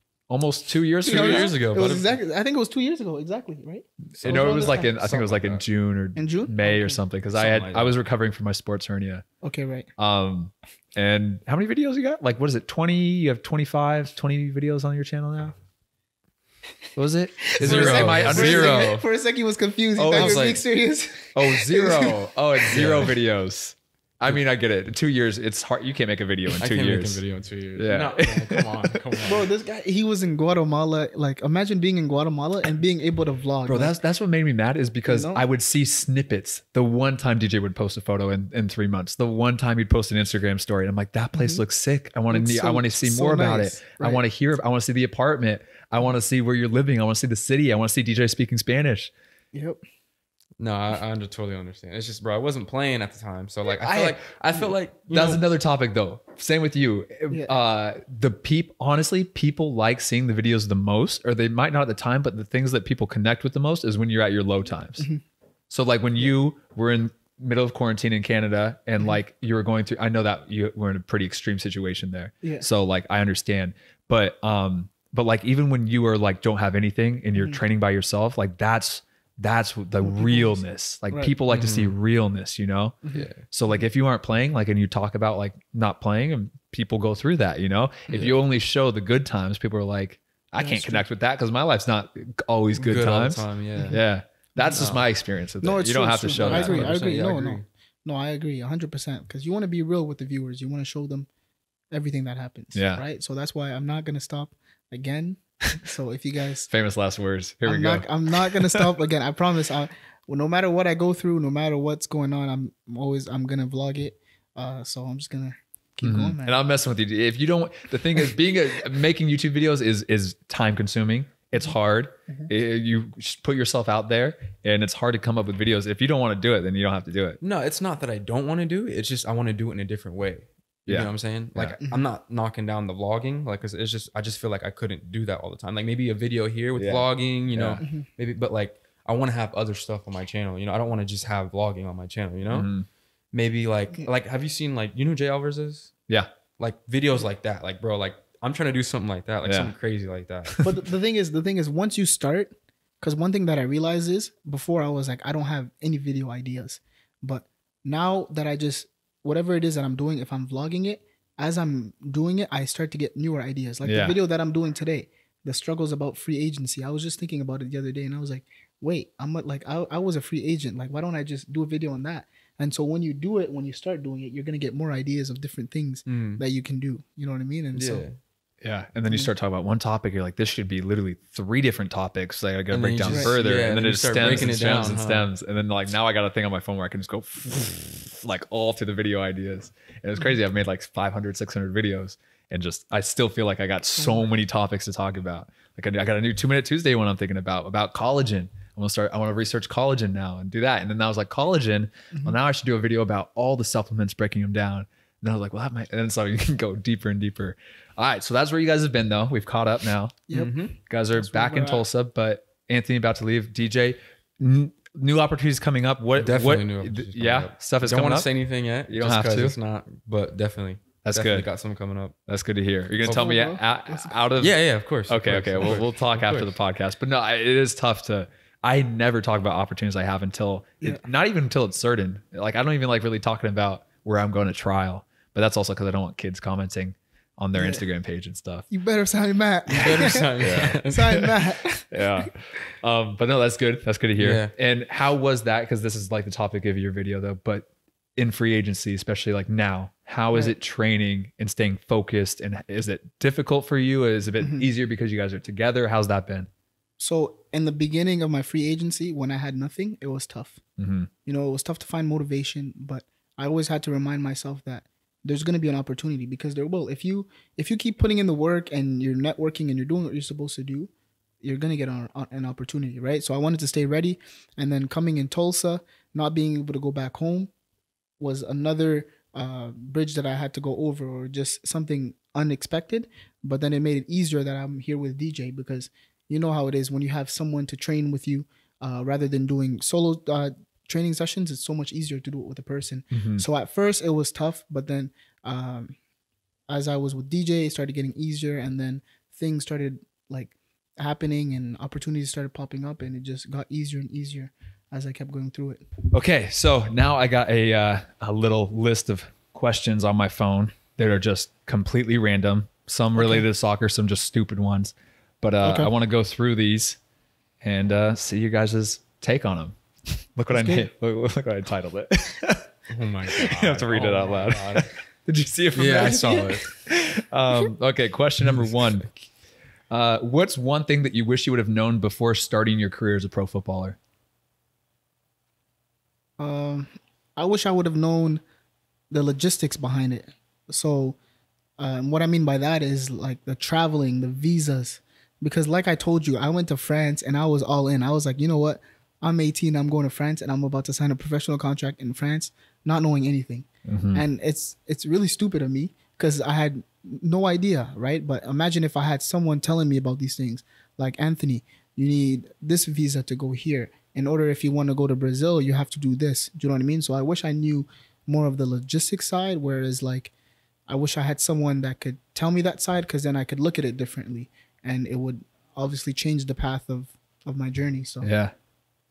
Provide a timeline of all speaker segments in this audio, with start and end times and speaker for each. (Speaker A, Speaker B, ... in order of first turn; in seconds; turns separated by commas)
Speaker A: 0.3-1.5, Speaker B: 1.1-2.2, Speaker C: 1.1-5.5, Speaker B: 4.2-5.6, Speaker A: 4.2-9.2, Speaker C: 6.2-7.0, Speaker B: 7.3-7.9, Speaker C: 9.4-9.9, Speaker A: 10.0-15.6, Speaker A: 17.0-18.8, Speaker C: 17.4-22.2, Speaker B: 17.6-19.1, Speaker A: 20.0-20.5, Speaker B: 20.1-20.6, Speaker A: 21.3-27.2, Speaker B: 22.7-23.1, Speaker B: 26.6-29.5, Speaker A: 27.8-29.0, Speaker C: 29.2-34.0, Speaker A: 33.6-49.1, Speaker C: 35.1-35.4, Speaker C: 41.4-41.6, Speaker C: 42.3-44.2, Speaker C: 49.5-49.8, Speaker B: 50.6-55.5, Speaker A: 53.8-54.2, Speaker A: 55.1-65.1, Speaker A: 65.7-96.9, Speaker C: 77.3-77.6, Speaker C: 80.0-81.3, Speaker B: 81.5-81.9, Speaker C: 83.0-83.3, Speaker B: 83.1-83.4, Speaker B: 88.1-88.4, Speaker C: 90.6-91.0, Speaker B: 92.8-94.0, Speaker C: 94.6-95.0, Speaker B: 94.8-95.0, Speaker C: 95.6-101.3, Speaker B: 96.3-97.7, Speaker C: 101.9-106.7, Speaker A: 102.7-103.0, Speaker A: 106.7-108.9, Speaker C: 107.7-116.6, Speaker A: 116.0-127.4, Speaker B: 127.4-142.7, Speaker A: 130.9-131.8, Speaker C: 131.8-132.1, Speaker A: 136.8-137.8, Speaker C: 137.8-138.1, Speaker A: 142.5-142.9, Speaker B: 143.3-145.9, Speaker B: 146.6-150.7, Speaker A: 149.4-149.7, Speaker C: 150.6-178.1, Speaker A: 163.8-164.2, Speaker B: 176.1-176.4, Speaker B: 177.7-178.2, Speaker A: 178.6-210.2, Speaker B: 182.7-185.3, Speaker C: 183.1-183.3, Speaker C: 202.1-202.4, Speaker C: 210.3-211.9, Speaker B: 210.3-210.8, Speaker A: 210.9-218.3, Speaker B: 216.2-222.2, Speaker A: 218.9-219.6, Speaker A: 221.0-221.5, Speaker A: 222.3-224.6, Speaker C: 223.1-224.2, Speaker B: 224.4-226.5, Speaker A: 225.1-238.7, Speaker C: 237.6-237.8, Speaker C: 238.7-242.3, Speaker B: 239.7-241.3, Speaker A: 240.4-241.3, Speaker A: 241.9-256.5, Speaker B: 244.2-244.5, Speaker C: 254.4-254.7, Speaker C: 257.0-260.6, Speaker A: 260.8-261.1, Speaker C: 261.3-270.9, Speaker C: 271.4-277.5, Speaker C: 278.2-296.0, Speaker A: 293.1-293.5, Speaker C: 296.7-305.9, Speaker A: 306.1-317.0, Speaker C: 313.1-313.5, Speaker C: 315.6-315.9, Speaker A: 317.6-319.8, Speaker A: 320.4-322.7, Speaker C: 320.5-320.9, Speaker B: 322.9-324.9, Speaker A: 323.3-329.1, Speaker B: 325.8-326.7, Speaker A: 329.9-334.0, Speaker C: 336.4-338.4, Speaker C: 339.1-341.2, Speaker C: 341.8-370.3, Speaker A: 353.9-354.2, Speaker C: 370.9-378.3, Speaker A: 378.2-378.5